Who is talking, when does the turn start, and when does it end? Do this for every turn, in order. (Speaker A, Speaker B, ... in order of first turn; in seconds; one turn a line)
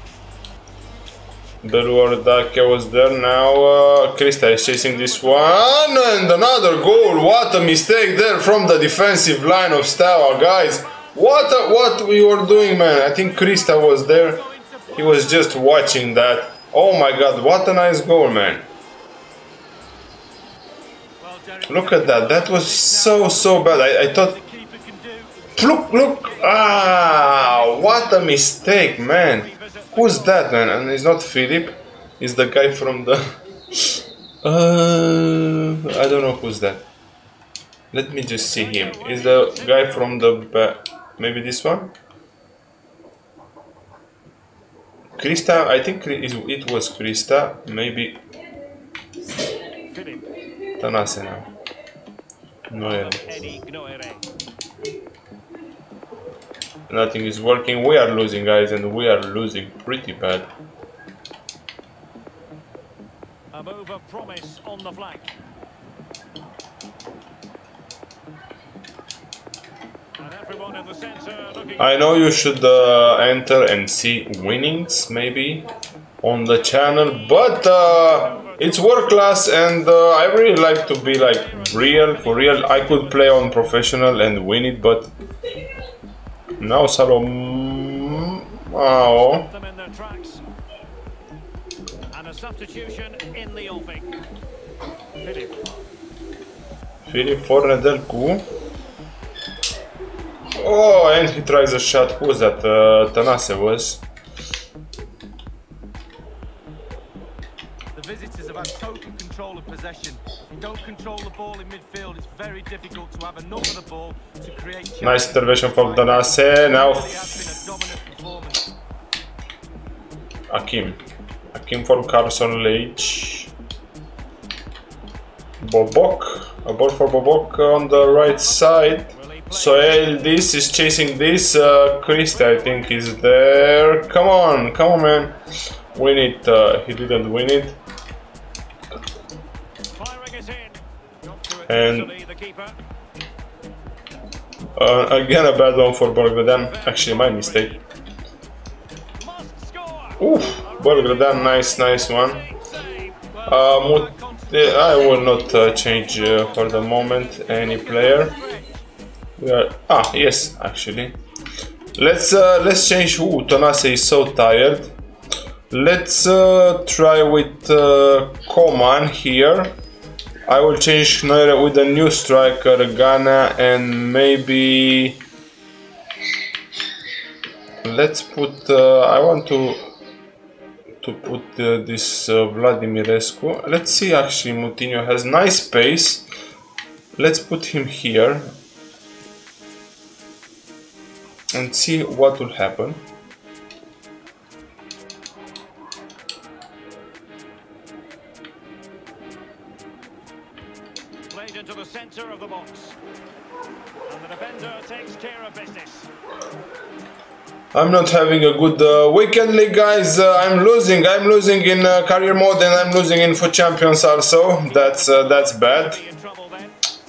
Speaker A: 1.6-14.4
Speaker B: 4.4-6.1
Speaker C: 12.8-15.6
Speaker A: 14.9-18.6
Speaker C: 21.2-26.2
Speaker A: 21.7-24.4
Speaker A: 25.6-33.2
Speaker B: 27.0-28.0
Speaker B: 28.8-30.7
Speaker A: 33.7-36.9
Speaker A: 37.9-41.9
Speaker B: 38.3-40.3
Speaker A: 45.2-48.2
Speaker B: 49.9-50.3
Speaker A: 50.8-51.5
Speaker A: 52.7-53.5
Speaker B: 52.8-54.2
Speaker A: 56.9-60.5
Speaker B: 63.5-65.3
Speaker B: 70.2-72.5
Speaker A: 71.8-75.7
Speaker A: 76.2-85.1
Speaker B: 76.7-83.7
Speaker A: 86.6-89.5
Speaker B: 89.1-90.4
Speaker B: 92.1-94.2
Speaker B: 95.2-95.6
Speaker A: 97.0-98.4
Speaker A: 100.6-104.0
Speaker C: 107.9-118.7
Speaker A: 115.0-117.4
Speaker A: 120.5-121.0
Speaker A: 121.5-123.5
Speaker A: 125.6-135.3
Speaker B: 127.8-130.7
Speaker B: 132.5-133.0
Speaker A: 135.9-137.8
Speaker B: 139.9-140.8
Speaker B: 141.3-142.8
Speaker A: 141.7-142.1
Speaker A: 144.8-147.8
Speaker B: 146.4-147.8
Speaker B: 149.2-153.2
Speaker A: 150.2-152.4
Speaker C: 153.3-158.7
Speaker A: 153.5-158.3
Speaker A: 159.4-161.1
Speaker A: 161.9-164.9
Speaker A: 165.7-169.7
Speaker A: 170.5-175.2
Speaker A: 177.8-179.8
Speaker A: 181.0-186.2
Speaker A: 187.2-188.5
Speaker A: 191.5-193.0
Speaker B: 201.3-203.0
Speaker B: 204.1-206.1
Speaker A: 207.7-216.0
Speaker B: 214.6-216.7